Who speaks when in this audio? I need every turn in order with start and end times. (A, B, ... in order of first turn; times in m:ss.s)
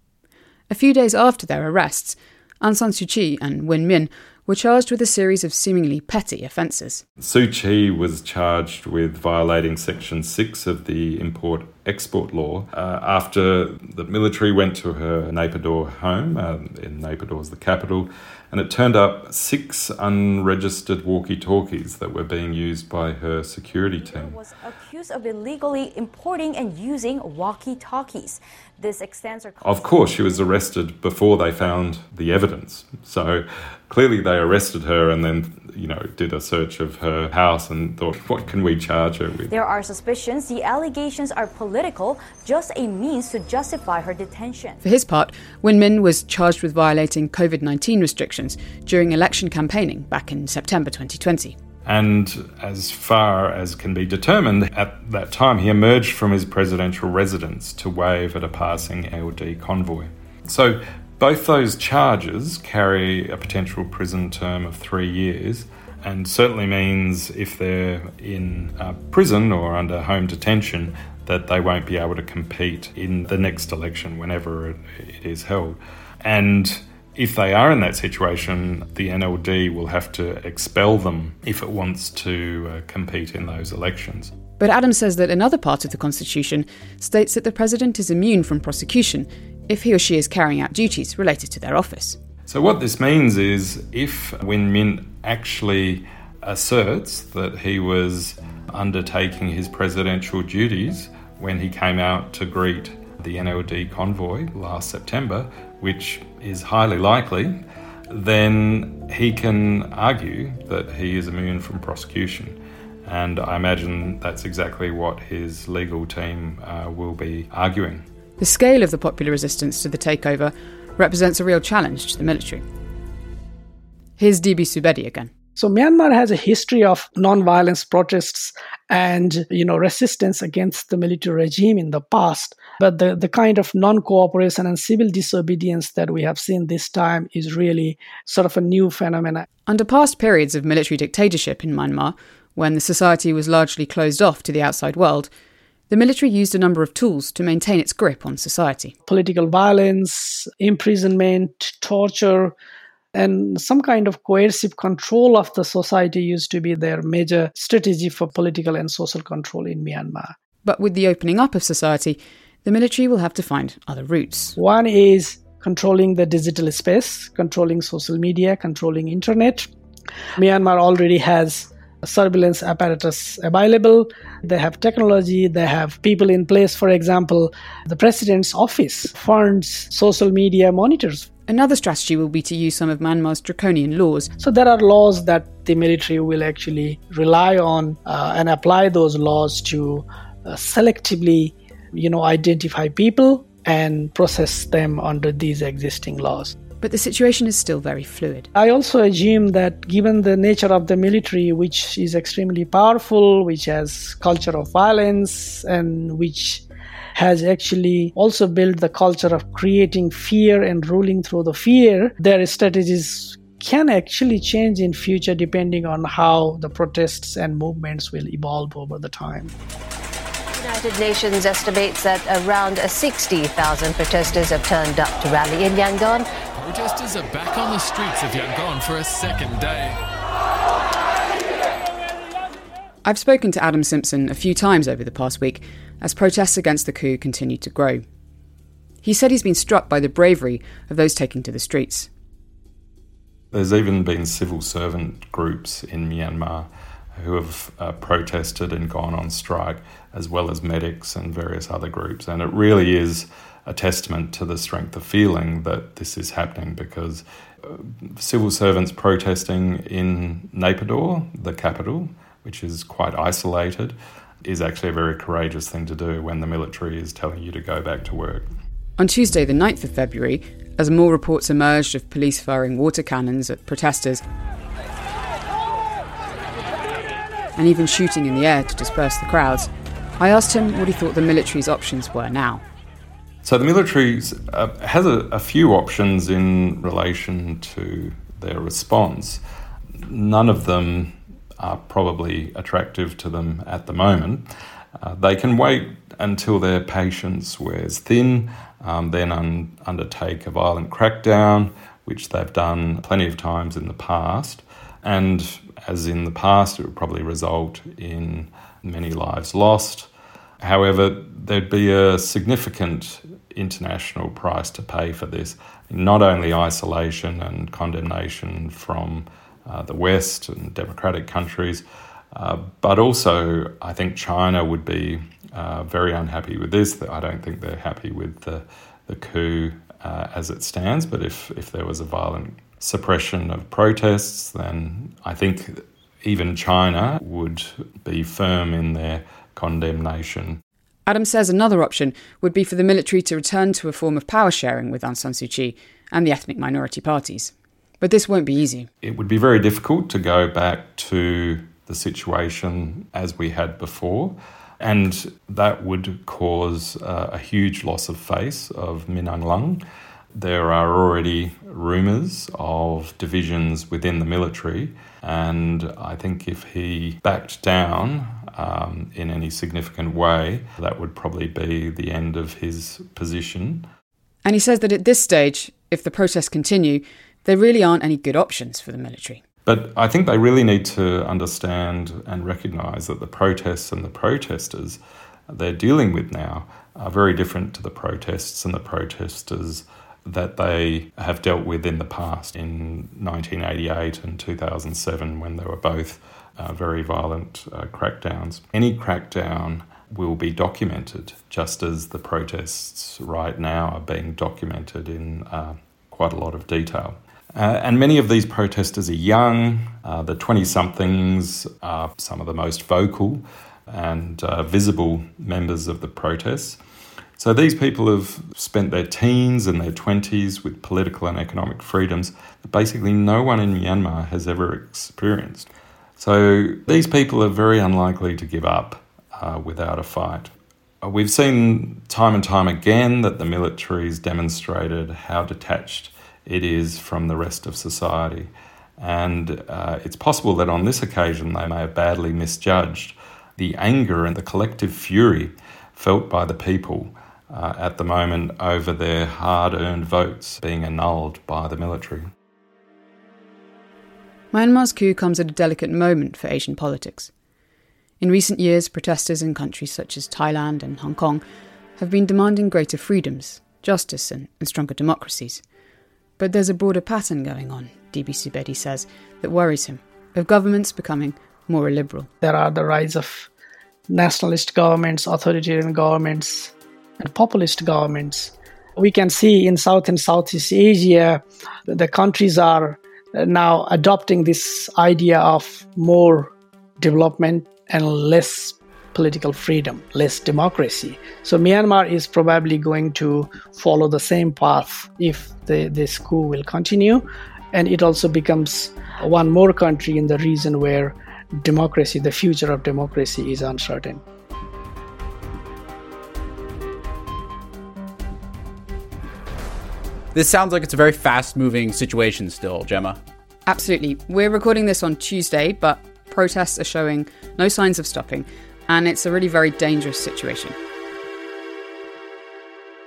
0:00.7-0:07.0 A
0:07.2-0:24.4 B
0:24.0-0:30.5 C
0:29.6-0:39.5 B
0:39.5-0:44.8 C
0:44.8-0:51.6 A
0:51.8-1:24.3 B
1:24.6-1:32.2 A
1:32.5-1:58.1 B
1:58.4-2:02.6 A
2:04.2-2:05.3 A
2:05.6-2:19.5 D
2:19.7-2:25.3 A
2:25.9-2:29.0 A
2:29.1-2:32.5 D
2:33.2-2:40.3 D
2:40.6-2:44.6 A
2:44.6-2:49.7 D
2:50.4-3:01.3 D
3:01.5-3:04.3 A
3:04.4-3:16.6 D
3:16.8-3:18.5 A
3:18.6-3:26.6 D
3:27.2-3:39.5 D
3:40.6-3:46.3 E
3:46.6-3:50.0 F
3:53.0-3:58.0 A
3:59.0-4:02.1 A
4:03.5-4:28.5 B
4:29.0-4:34.2 A
4:37.6-4:42.6 A
4:43.4-4:49.4 B
4:50.0-4:54.5 B
4:55.0-5:40.6 B
5:41.1-5:48.9 A
5:49.0-6:13.9 B
6:14.4-6:19.4 A
6:19.7-6:56.8 B
6:57.4-7:32.3 B
7:34.5-7:37.3 A
7:38.2-7:41.4 A
7:42.0-7:45.6 A
7:46.4-7:52.3 A
7:52.4-7:53.5 D
7:54.1-8:24.2 D
8:30.3-8:33.2 G
8:33.7-8:40.8 A